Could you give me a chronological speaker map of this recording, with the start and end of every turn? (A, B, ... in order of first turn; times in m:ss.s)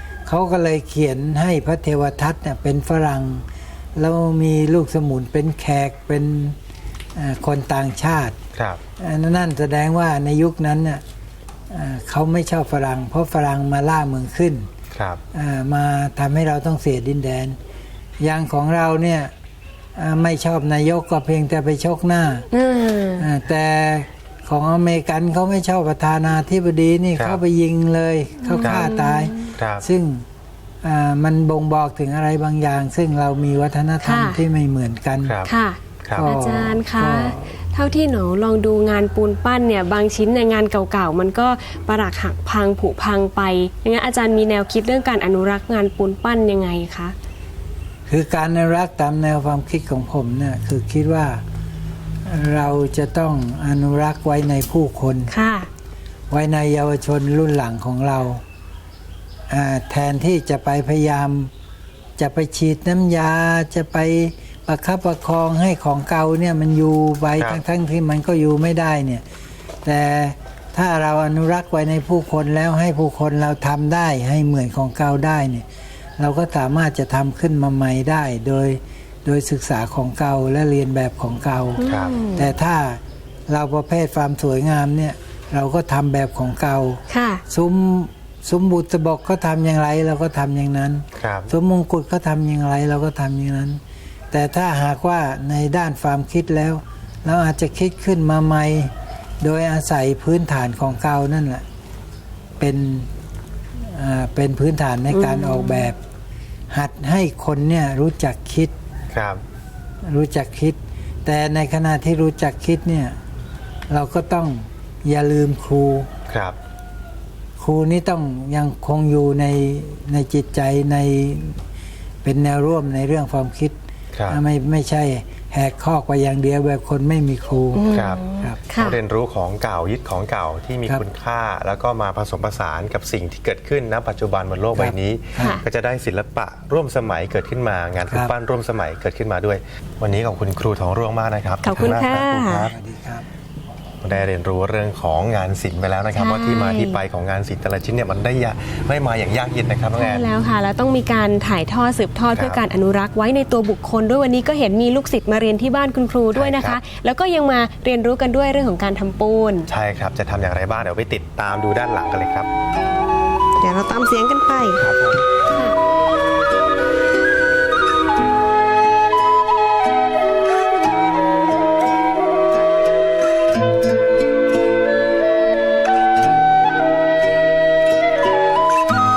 0:00.2-0:03.4 A
0:04.0-0:06.6 A
0:07.2-0:08.4 A
0:08.5-0:08.8 B
0:09.0-0:11.0 A
0:11.7-0:14.7 A
0:14.9-0:15.2 B
0:15.3-0:17.6 A
0:18.2-0:19.3 A
0:20.0-0:22.5 A
0:22.5-0:23.3 C
0:23.2-0:30.2 A
0:28.4-0:29.5 C
0:29.6-0:29.8 B
0:30.8-0:35.3 A
0:34.0-0:34.4 C
0:35.2-0:35.5 B
0:35.4-0:47.1 C
0:36.1-0:37.6 A
0:48.1-0:51.4 A
0:52.2-0:55.3 A
0:55.3-0:55.7 C
0:56.3-0:58.4 A
0:59.5-1:01.5 A
1:02.2-1:09.2 A
1:09.8-1:15.6 A
1:16.2-1:21.8 A
1:21.8-1:22.5 C
1:21.8-1:22.1 B
1:22.3-1:33.8 A
1:27.1-1:27.4 C
1:31.2-1:31.5 B
1:34.3-1:41.6 A
1:42.6-1:43.1 A
1:43.8-1:46.0 A
1:45.1-1:45.9 C
1:46.7-1:48.7 A
1:49.1-1:49.4 B
1:50.0-1:53.2 A
1:53.9-1:56.1 A
1:56.3-1:56.6 B
1:57.6-2:01.6 A
2:02.2-2:03.8 A
2:04.1-2:04.4 B
2:04.3-2:08.6 A
2:07.7-2:09.0 C
2:07.9-2:08.2 B
2:08.7-2:22.7 B
2:14.8-2:15.6 A
2:15.4-2:15.6 C
2:21.6-2:22.7 C
2:22.7-2:23.2 A
2:24.0-2:30.2 B
2:26.1-2:27.0 C
2:30.0-2:39.7 C
2:32.3-2:32.6 B
2:36.3-2:36.8 B
2:39.7-2:42.5 B
2:43.6-2:44.8 C
2:44.8-2:45.2 B